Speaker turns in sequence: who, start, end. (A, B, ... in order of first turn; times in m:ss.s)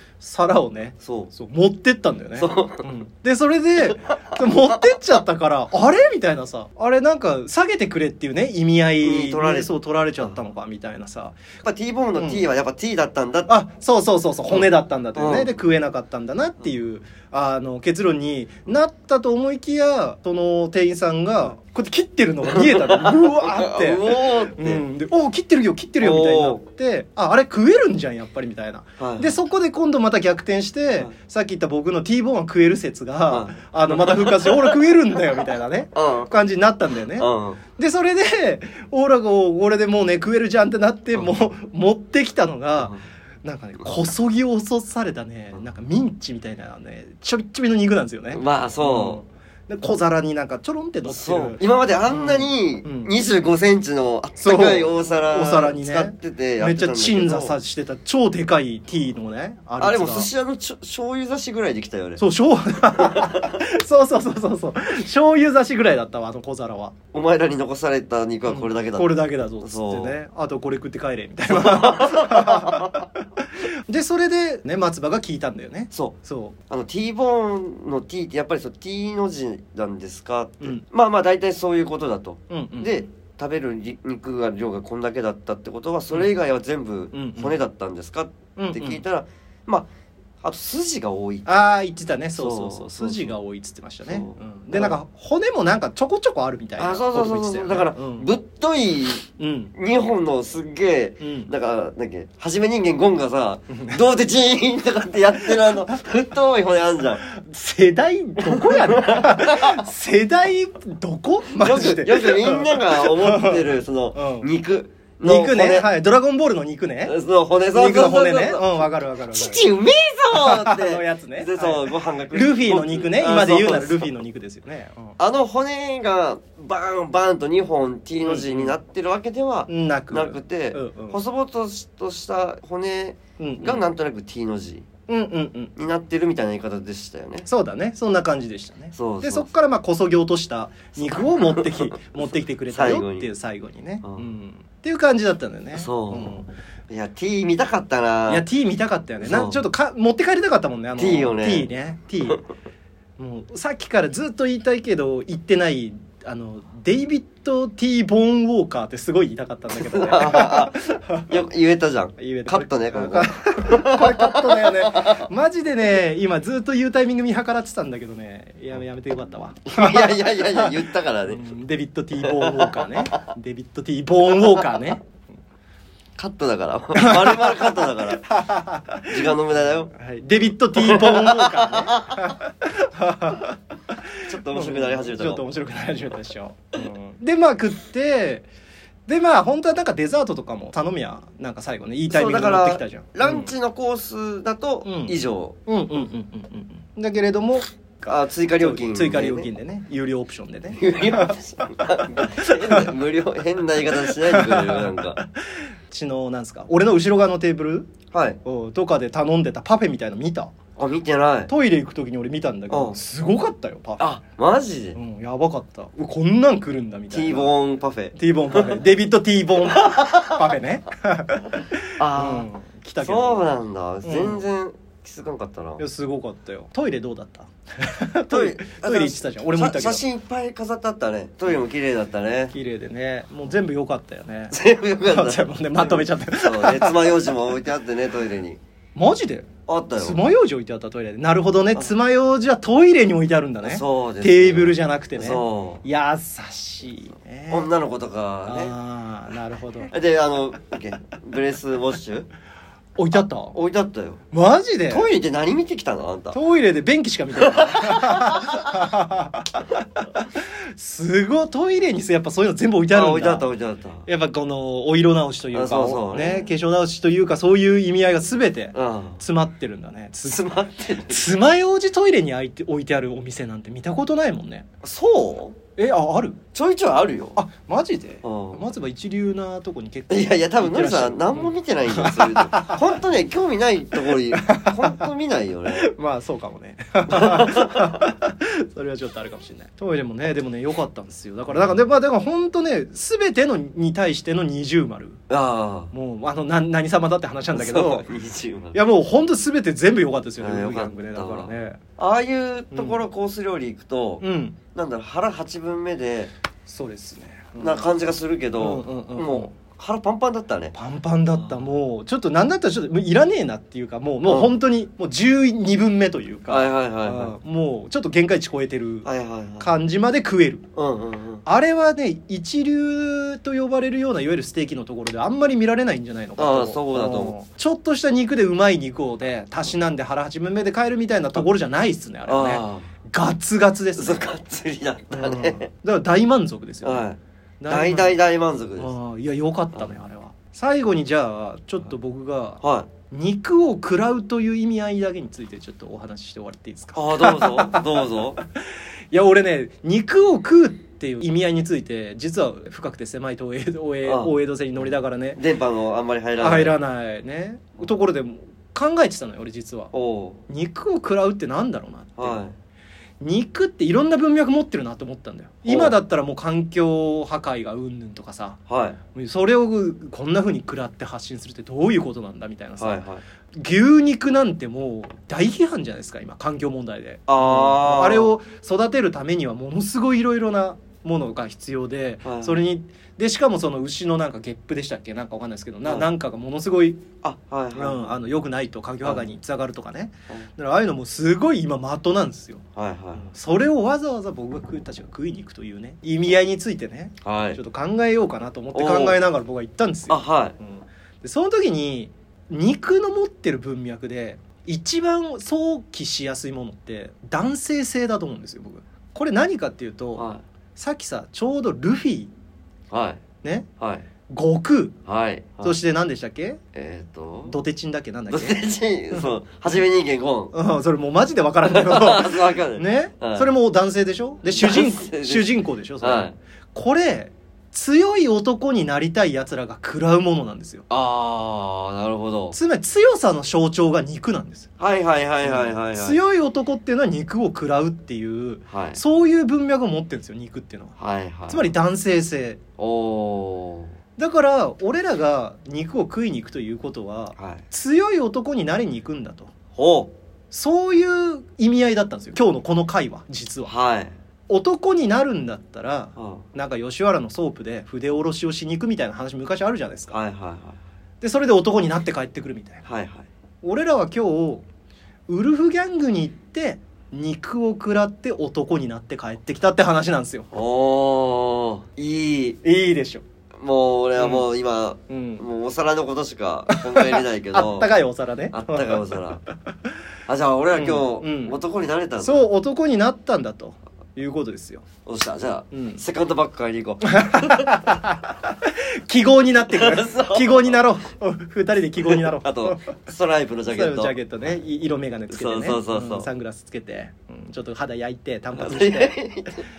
0:00.2-0:11.4 A
0:01.0-0:01.3 B
0:02.4-0:02.9 B
0:03.9-0:05.0 B
0:09.0-0:10.3 B
0:11.6-0:13.5 B
0:12.2-0:12.4 A
0:13.5-0:53.1 A
0:14.5-0:15.5 B
0:22.5-0:24.8 B
0:26.0-0:26.6 B
0:29.0-0:29.4 B
0:33.3-0:34.8 B
0:35.9-0:36.3 B
0:37.2-0:37.6 B
0:48.3-0:49.2 B
0:51.0-0:57.6 B
0:54.4-1:00.3 A
0:59.8-1:02.2 B
1:02.2-1:07.0 A
1:03.0-1:03.5 B
1:07.1-1:10.2 B
1:08.5-1:13.1 A
1:11.5-1:13.1 B
1:13.6-1:16.6 A
1:16.7-1:29.9 B
1:22.5-1:23.0 A
1:27.1-1:27.6 A
1:28.6-1:29.0 A
1:30.4-1:31.6 B
1:31.5-1:38.3 A
1:32.4-1:33.3 B
1:34.1-1:35.0 B
1:36.8-1:47.2 B
1:39.4-1:39.7 A
1:41.2-1:41.5 A
1:43.7-1:44.0 A
1:47.3-1:54.5 A
1:48.4-1:49.8 B
1:51.6-1:55.9 B
1:55.2-1:57.2 A
1:57.0-2:04.1 B
1:57.7-1:59.7 A
2:00.3-2:05.2 A
2:05.2-2:14.9 B
2:08.2-2:08.8 A
2:09.7-2:11.2 A
2:13.4-2:13.8 A
2:15.1-2:15.7 A
2:15.8-2:17.5 B
2:17.4-2:26.5 A
2:18.9-2:19.5 B
2:21.0-2:22.0 B
2:22.7-2:23.3 B
2:25.8-2:28.5 B
2:28.3-2:32.4 A
2:29.2-2:29.6 B
2:31.0-2:31.7 B
2:33.2-2:41.3 A
2:39.7-2:45.3 B
2:42.2-2:55.0 A
2:49.7-2:51.5 B
2:52.2-2:53.2 B
2:54.4-2:54.8 B
2:56.2-2:58.2 B
2:57.0-2:59.3 A
2:59.1-2:59.9 B
2:59.9-3:03.6 A
3:00.7-3:02.3 B
3:04.3-3:05.4 B
3:04.4-3:08.5 A
3:09.1-3:13.5 A
3:12.1-3:15.6 B
3:14.8-3:15.2 A
3:15.7-3:21.4 A
3:18.1-3:19.5 B
3:20.7-3:25.2 B
3:22.2-3:22.9 A
3:24.1-3:25.3 A
3:25.9-3:27.9 A
3:28.1-3:28.4 B
3:28.4-3:30.6 A
3:30.8-3:31.5 B
3:31.5-3:34.1 A
3:32.7-3:33.0 B
3:34.0-3:35.0 B
3:35.0-3:37.5 A
3:37.1-3:38.8 B
3:38.2-3:43.4 A
3:39.6-3:40.5 B
3:42.0-3:42.5 B
3:43.0-3:45.8 B
3:44.0-3:44.4 A
3:45.8-3:50.0 A
3:48.3-3:52.5 B
3:52.5-3:57.3 A
3:54.5-3:58.6 B
3:59.0-4:07.7 A
3:59.7-4:00.2 B
4:03.6-4:05.8 B
4:07.5-4:08.7 B
4:08.5-4:09.9 A
4:09.9-4:12.3 B
4:13.0-4:13.6 A
4:13.5-4:14.2 B
4:14.3-4:15.1 A
4:14.9-4:16.4 B
4:16.3-4:23.5 A
4:17.4-4:18.9 B
4:22.9-4:24.1 B
4:24.1-4:30.5 A
4:25.5-4:26.5 B
4:28.7-4:29.2 B
4:30.2-4:31.3 B
4:31.1-4:34.7 A
4:34.8-4:35.6 B
4:35.8-4:36.4 A
4:36.5-4:37.4 B
4:37.4-4:42.8 A
4:38.2-4:38.6 B
4:40.1-4:45.9 B
4:44.3-4:45.1 A
4:45.7-4:55.2 A
4:47.1-4:48.0 B
4:51.5-4:51.8 B
4:55.3-4:55.9 B
4:55.9-4:58.1 A
4:57.5-4:58.8 B
4:58.7-5:01.8 A
5:00.4-5:06.3 B
5:02.7-5:03.0 A
5:04.2-5:04.6 A
5:06.7-5:07.9 A
5:07.6-5:10.7 B
5:08.6-5:09.5 A
5:10.7-5:19.1 A
5:14.2-5:14.5 B
5:16.5-5:17.3 B
5:19.0-5:19.7 B
5:19.6-5:20.7 A
5:20.8-5:21.4 B
5:21.4-5:34.3 A
5:26.4-5:27.4 B
5:32.3-5:32.9 B
5:34.0-5:35.7 B
5:35.1-5:37.1 A
5:36.8-5:37.2 B
5:37.6-5:38.2 A
5:37.7-5:38.9 B
5:38.8-5:48.1 A
5:42.6-5:42.9 B
5:46.9-5:48.4 B
5:49.1-5:55.4 A
5:54.0-5:56.8 B
5:56.4-5:59.9 A
5:59.9-6:00.4 B
6:00.5-6:02.4 A
6:02.2-6:02.5 B
6:03.2-6:08.6 A
6:05.7-6:06.0 B
6:08.7-6:09.0 B
6:09.1-6:13.0 A
6:12.8-6:13.2 B
6:13.5-6:27.1 A
6:17.3-6:18.4 B
6:22.2-6:22.6 B
6:27.2-6:28.0 B
6:27.8-6:32.6 A
6:32.8-6:33.3 B
6:33.2-6:52.3 A
6:37.2-6:37.6 B
6:38.7-6:39.2 B
6:40.1-6:40.6 B
6:50.2-6:50.4 B
6:52.9-6:53.2 B
6:53.8-6:54.1 B
6:54.3-6:55.0 A
6:55.1-6:55.8 B
6:55.6-6:56.6 A
6:56.7-6:57.6 B
6:57.5-6:59.3 A
6:58.3-7:00.5 B
7:00.5-7:10.9 A
7:01.6-7:03.5 B
7:04.5-7:06.4 B
7:10.9-7:12.6 B
7:12.5-7:14.7 A
7:14.8-7:16.2 B
7:15.4-7:21.0 A
7:18.7-7:19.0 B
7:21.0-7:21.7 B
7:21.5-7:22.6 A
7:22.8-7:23.9 B
7:24.2-7:29.5 A
7:27.4-7:27.6 B
7:29.8-7:30.1 B
7:30.5-7:33.7 A
7:33.7-7:34.1 B
7:34.5-7:40.2 A
7:36.2-7:36.4 B
7:40.1-7:40.8 B
7:41.2-7:42.9 A
7:42.9-7:43.2 B
7:43.6-7:44.6 A
7:45.3-7:50.5 A
7:50.5-7:52.6 B
7:52.6-7:53.2 A
7:53.6-7:57.9 B
7:54.2-7:54.5 A
7:55.1-7:55.4 A
7:56.7-7:59.1 A
7:58.5-7:59.4 B
8:00.3-8:02.4 B
8:00.7-8:01.6 A
8:02.2-8:04.9 A
8:05.0-8:08.0 B
8:05.7-8:06.0 A
8:07.1-8:13.0 A
8:09.7-8:10.8 B
8:12.0-8:14.2 B
8:13.7-8:19.2 A
8:15.3-8:16.3 B
8:18.5-8:19.6 B